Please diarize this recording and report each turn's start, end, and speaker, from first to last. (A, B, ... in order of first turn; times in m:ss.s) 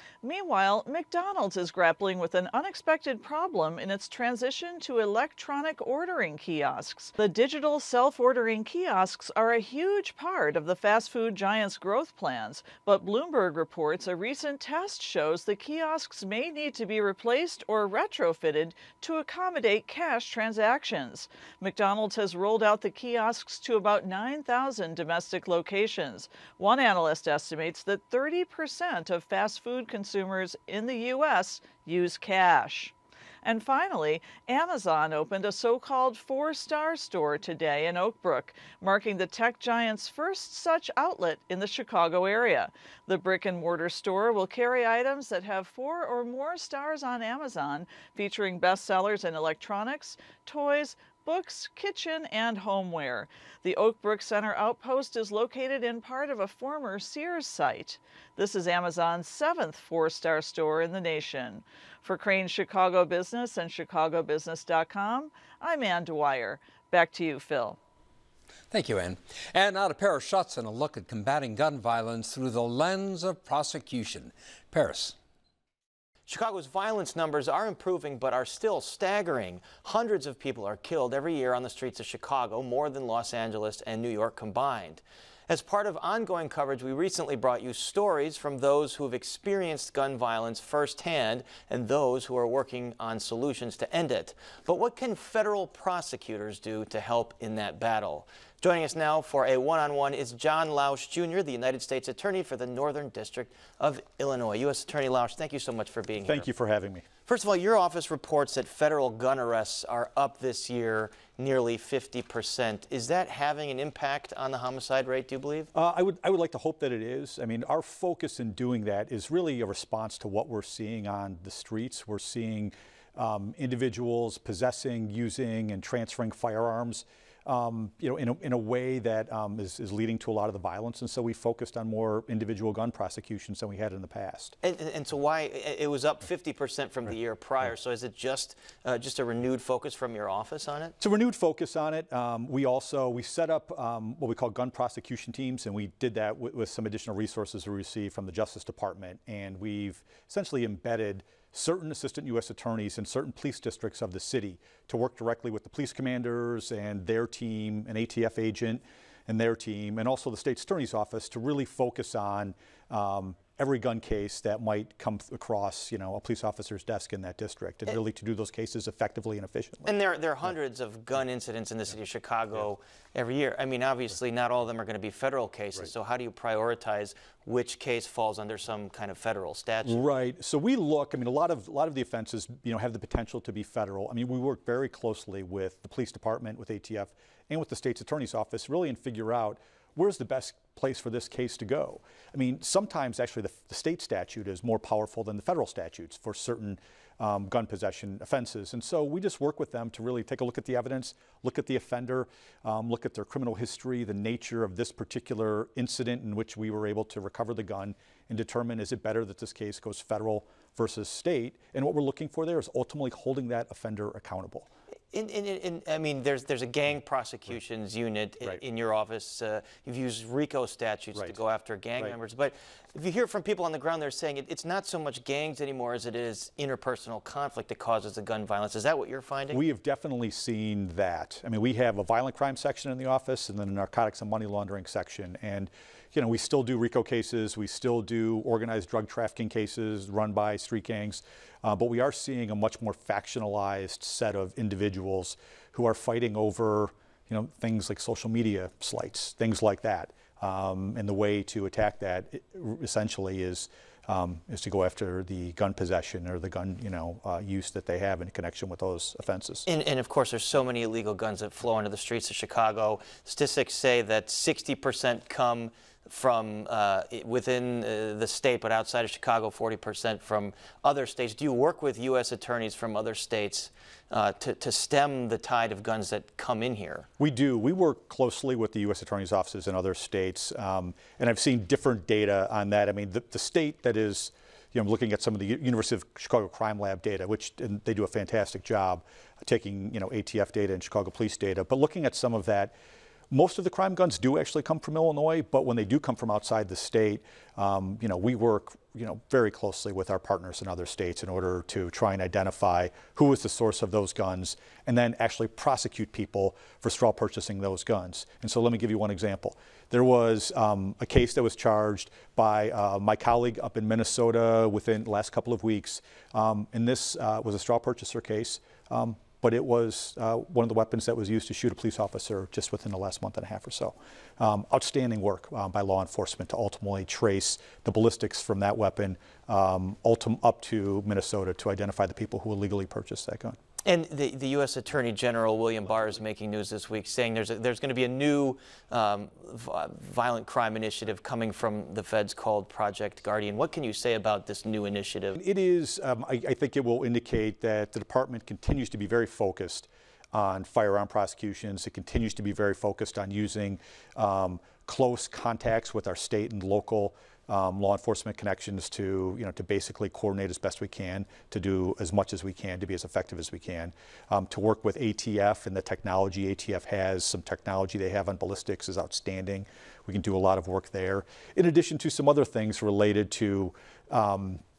0:00.2-1:07.8 A
1:08.7-1:15.1 B
1:16.3-1:46.5 C
1:46.2-1:47.1 D
1:47.2-1:55.7 C
1:55.7-2:14.5 D
2:14.6-2:20.9 C
2:21.0-2:50.6 D
2:49.8-3:00.0 C
2:59.8-3:34.7 D
3:35.1-3:49.6 C
3:41.1-3:41.4 D
3:49.5-4:19.7 D
4:19.7-4:37.1 C
4:37.2-4:52.7 D
4:53.3-5:33.6 D
5:33.8-5:45.4 C
5:45.4-6:14.6 D